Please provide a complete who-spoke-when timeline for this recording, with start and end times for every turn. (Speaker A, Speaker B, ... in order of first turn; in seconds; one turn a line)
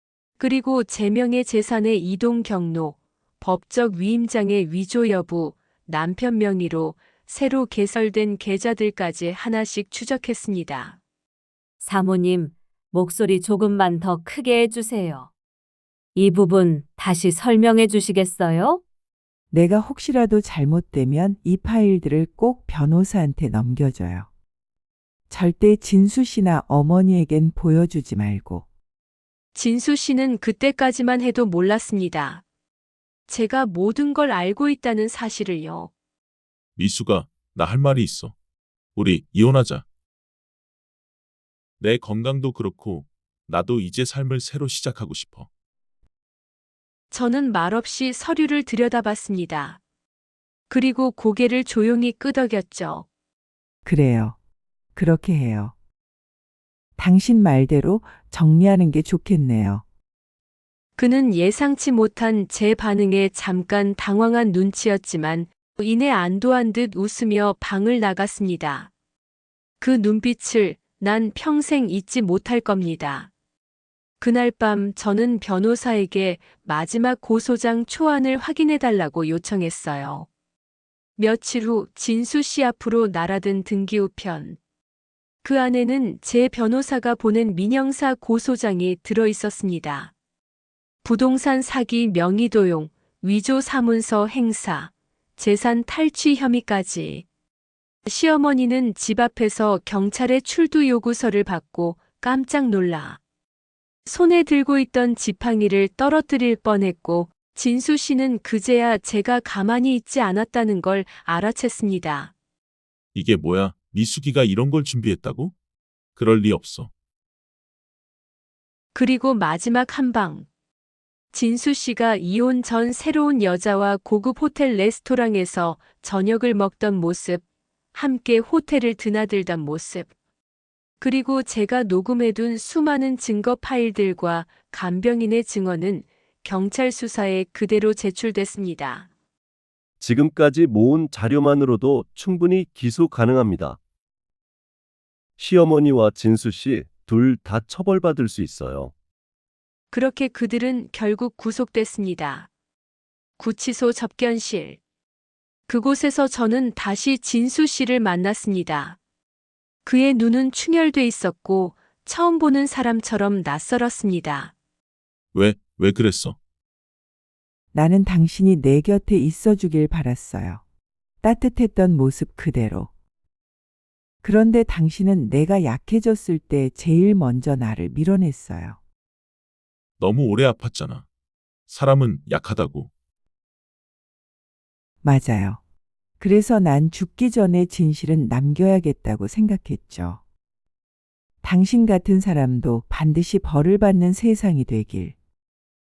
Speaker A: 0.4-11.0
Speaker B: 11.8-15.3
Speaker B: 16.1-18.8
Speaker C: 19.5-24.3
Speaker C: 25.3-28.6
Speaker A: 29.5-32.4
Speaker A: 33.3-35.9
Speaker D: 36.8-38.3
Speaker D: 39.0-39.8
Speaker D: 41.8-45.5
Speaker A: 47.1-49.8
Speaker A: 50.7-53.0
Speaker C: 53.8-54.3
Speaker C: 54.9-55.7
Speaker C: 57.0-59.8
Speaker A: 61.0-68.9
Speaker A: 69.8-73.3
Speaker A: 74.2-80.3
Speaker A: 81.2-84.6
Speaker A: 85.4-90.1
Speaker A: 91.0-97.2
Speaker A: 98.0-103.2
Speaker A: 104.0-112.3
Speaker D: 113.1-115.5
Speaker D: 116.2-116.9
Speaker A: 118.9-120.5
Speaker A: 121.3-127.4
Speaker A: 127.9-130.1
Speaker A: 131.0-139.1
Speaker E: 140.0-143.8
Speaker E: 145.4-148.9
Speaker A: 149.9-152.5
Speaker A: 153.4-154.8
Speaker A: 155.7-159.0
Speaker A: 159.8-164.5
Speaker D: 165.3-166.4
Speaker C: 167.7-170.6
Speaker C: 171.2-172.9
Speaker C: 174.2-178.8
Speaker D: 180.0-181.0
Speaker D: 181.7-182.9
Speaker C: 185.0-185.6
Speaker C: 186.2-190.2
Speaker C: 191.4-195.1